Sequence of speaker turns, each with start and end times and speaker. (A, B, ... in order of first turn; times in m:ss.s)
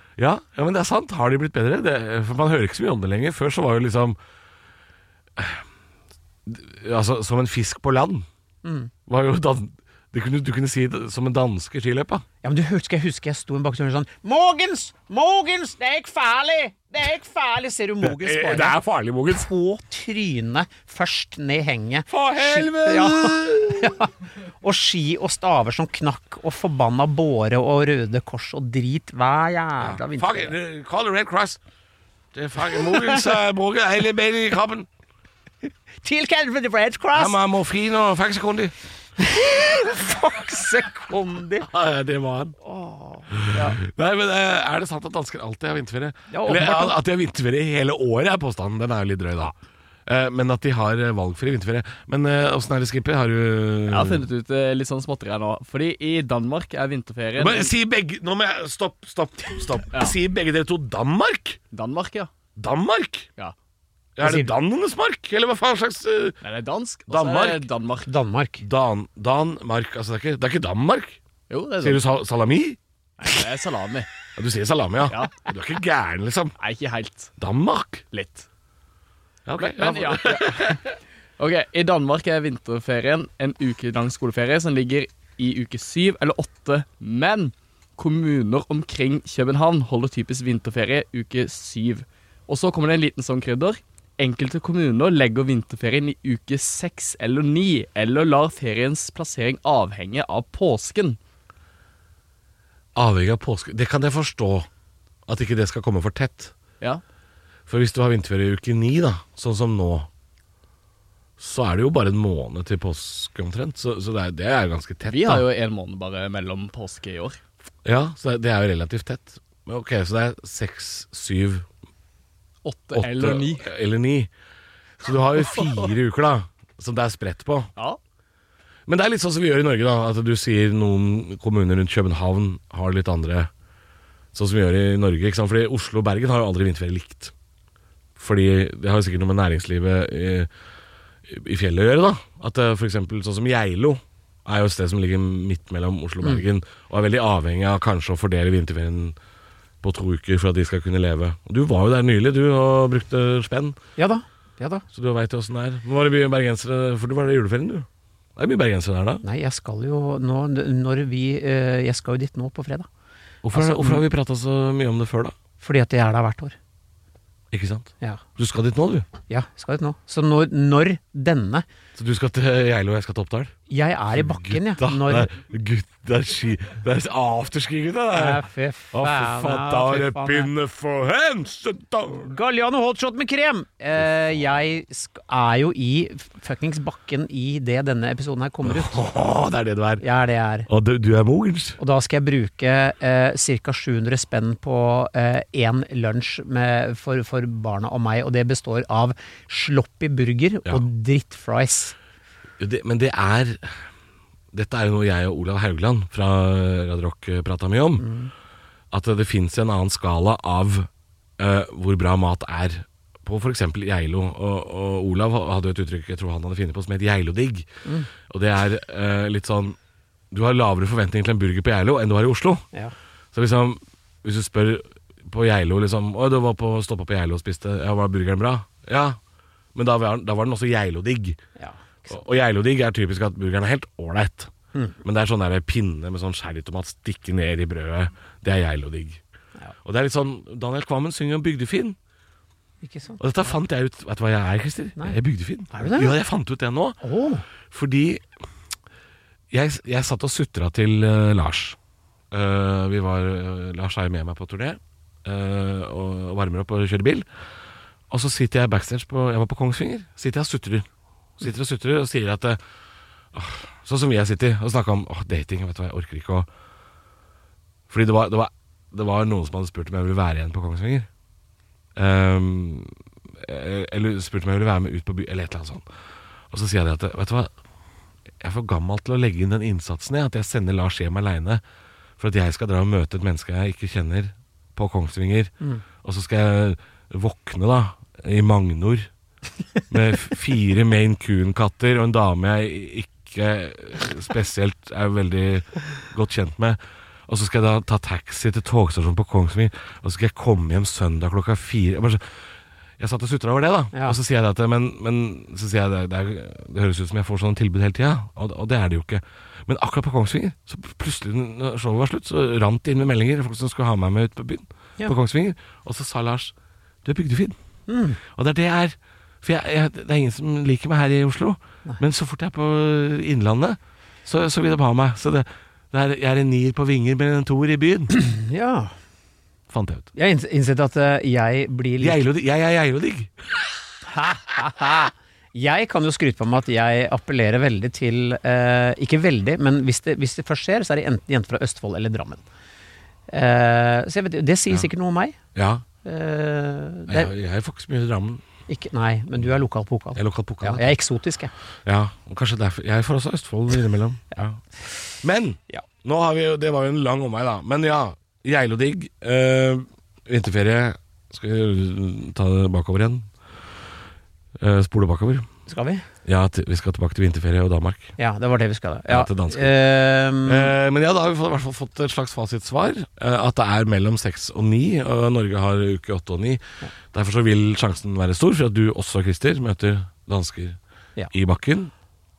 0:00.2-0:04.2 A
0:05.4-0:05.6 A
0:06.4-0:08.2 A
0:08.6-0:08.9 B
0:09.1-0:12.2 A
0:12.4-0:18.8 B
0:18.0-0:19.5 A
0:19.3-0:24.1 B
0:22.1-0:24.0 A
0:24.6-0:30.6 B
0:29.8-0:31.6 A
0:32.3-0:34.9 A
0:32.7-0:33.2 B
0:36.0-0:37.4 B
0:37.1-0:38.7 A
0:39.2-0:41.7 B
0:41.6-0:42.6 A
0:42.6-0:43.8 B
0:43.3-0:49.5 A
0:46.3-0:47.0 B
0:50.0-0:54.3 A
0:53.9-0:57.7 C
0:57.4-1:01.6 A
1:01.7-1:02.3 C
1:02.6-1:03.3 A
1:04.2-1:06.4 A
1:04.2-1:04.5 B
1:06.4-1:08.1 C
1:07.1-1:07.7 A
1:08.0-1:08.6 B
1:08.6-1:11.2 A
1:11.5-1:12.0 C
1:11.8-1:13.4 A
1:13.2-1:14.1 C
1:14.3-1:16.6 A
1:15.0-1:15.4 C
1:16.6-1:17.3 C
1:17.4-1:18.1 A
1:18.1-1:18.4 C
1:19.4-1:20.8 A
1:19.6-1:20.9 C
1:21.4-1:41.2 C
1:42.9-1:44.7 A
1:45.2-1:46.5 A
1:47.7-1:50.1 A
1:51.4-1:55.5 A
1:55.0-1:57.4 C
1:57.8-2:01.7 A
2:02.6-2:03.7 C
2:02.9-2:04.3 A
2:05.0-2:07.7 A
2:05.4-2:05.8 C
2:08.9-2:13.5 A
2:14.3-2:17.3 A
2:18.2-2:20.5 A
2:21.2-2:29.2 A
2:29.8-2:33.8 A
2:34.0-2:34.8 B
2:34.9-2:39.2 A
2:39.2-2:42.9 B
2:43.4-2:45.3 A
2:43.5-2:44.0 B
2:45.6-2:46.6 B
2:47.5-2:49.1 A
2:49.3-2:51.6 B
2:51.9-2:53.5 A
2:53.7-2:55.3 B
2:54.1-3:02.3 A
2:58.1-3:00.5 B
3:02.2-3:09.1 B
3:08.6-3:10.0 A
3:10.0-3:10.7 B
3:10.7-3:11.8 A
3:11.8-3:22.0 B
3:22.6-3:23.8 A
3:24.5-3:28.1 A
3:28.0-3:28.3 B
3:28.9-3:37.7 A
3:38.2-3:39.8 A
3:40.3-3:42.6 A
3:43.3-3:49.2 A
3:49.7-3:51.4 A
3:51.6-3:52.2 B
3:52.1-3:54.5 A
3:55.0-3:59.2 A
3:59.8-4:02.0 A
4:02.8-4:03.6 B
4:03.2-4:07.0 A
4:05.7-4:06.2 B
4:07.0-4:07.4 B
4:07.7-4:08.2 A
4:09.5-4:11.8 A
4:12.3-4:17.2 A
4:18.1-4:22.6 A
4:23.3-4:26.5 A
4:27.9-4:31.1 A
4:32.0-4:35.8 A
4:36.5-4:37.5 A
4:38.4-4:41.6 A
4:42.2-4:49.1 A
4:49.9-5:02.3 A
5:03.0-5:16.5 A
5:03.9-5:04.2 B
5:17.0-5:17.6 A
5:17.9-5:18.2 B
5:18.2-5:28.2 A
5:28.1-5:28.9 B
5:29.7-5:30.1 A
5:30.1-5:32.2 B
5:32.0-5:33.5 A
5:34.0-5:42.4 B
5:43.3-5:45.4 B
5:45.5-5:45.8 A
5:46.0-5:47.3 B
5:47.1-5:48.4 A
5:48.7-5:51.5 B
5:50.1-5:51.0 A
5:51.8-5:54.6 A
5:55.2-6:03.3 A
6:04.6-6:05.5 A
6:05.7-6:06.0 B
6:06.2-6:08.1 A
6:08.2-6:10.7 B
6:09.1-6:09.9 A
6:10.4-6:20.8 A
6:21.3-6:21.9 A